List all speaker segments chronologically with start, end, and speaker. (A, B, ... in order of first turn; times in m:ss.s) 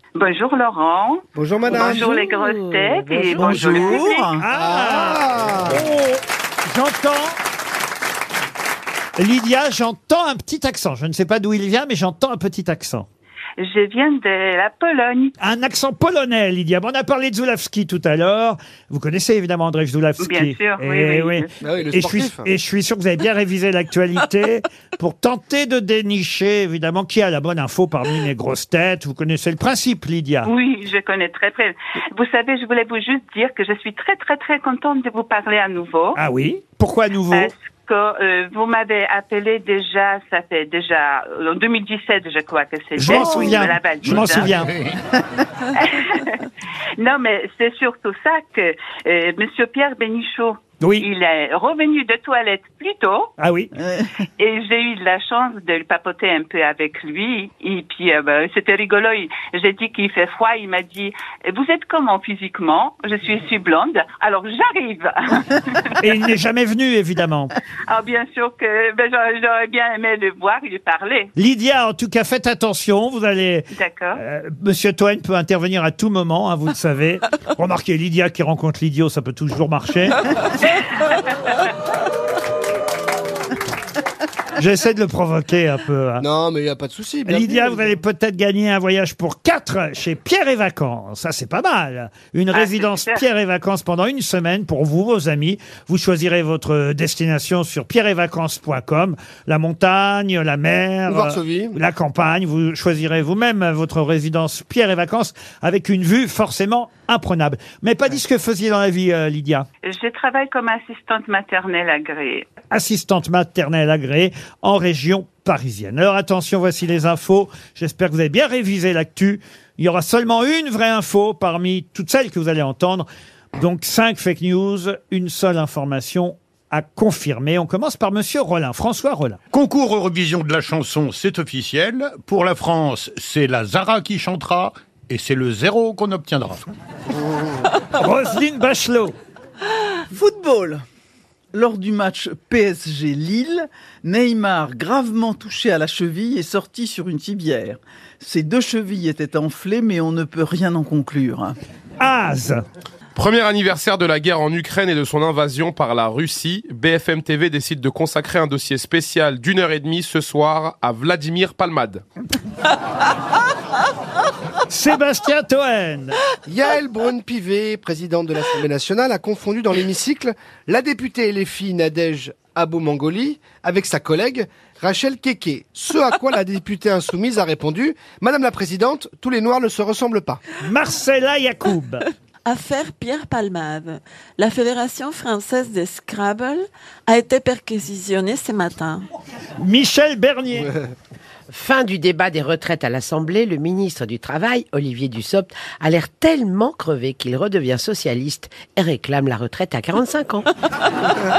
0:00.2-0:04.4 A
0:01.4-0:02.1 B
0:03.3-0:04.4 C
0:04.3-0:07.4 D
0:04.5-0:05.8 B
0:09.2-0:13.1 D
0:13.6-0:15.4 A
0:15.4-0:30.5 D
0:20.2-0:21.5 A
0:21.6-0:22.5 B
0:30.4-0:36.2 A
0:36.2-0:37.5 D
0:37.3-0:44.5 A
0:43.0-0:44.7 D
0:44.0-0:45.0 E
0:45.7-0:46.4 A
0:47.0-0:53.3 A
0:50.8-0:51.1 D
0:53.4-0:53.7 D
0:53.7-0:54.2 C
0:54.4-1:05.9 A
1:06.0-1:07.5 D
1:07.9-1:11.3 A
1:11.4-1:20.2 D
1:13.8-1:14.2 A
1:24.6-1:26.3 D
1:26.2-1:27.9 B
1:27.3-1:49.7 D
1:32.5-1:33.2 A
1:41.1-1:41.8 B
1:49.9-1:52.4 A
1:52.7-2:09.4 D
2:09.5-2:16.6 E
2:17.9-2:19.2 D
2:20.1-2:20.8 C
2:21.5-2:31.6 C
2:32.0-2:32.6 D
2:33.2-2:42.0 F
2:44.7-2:46.2 D
2:46.4-3:00.4 B
3:00.6-3:02.0 D
3:02.5-3:09.1 G
3:09.6-3:10.7 D
3:11.5-3:20.5 H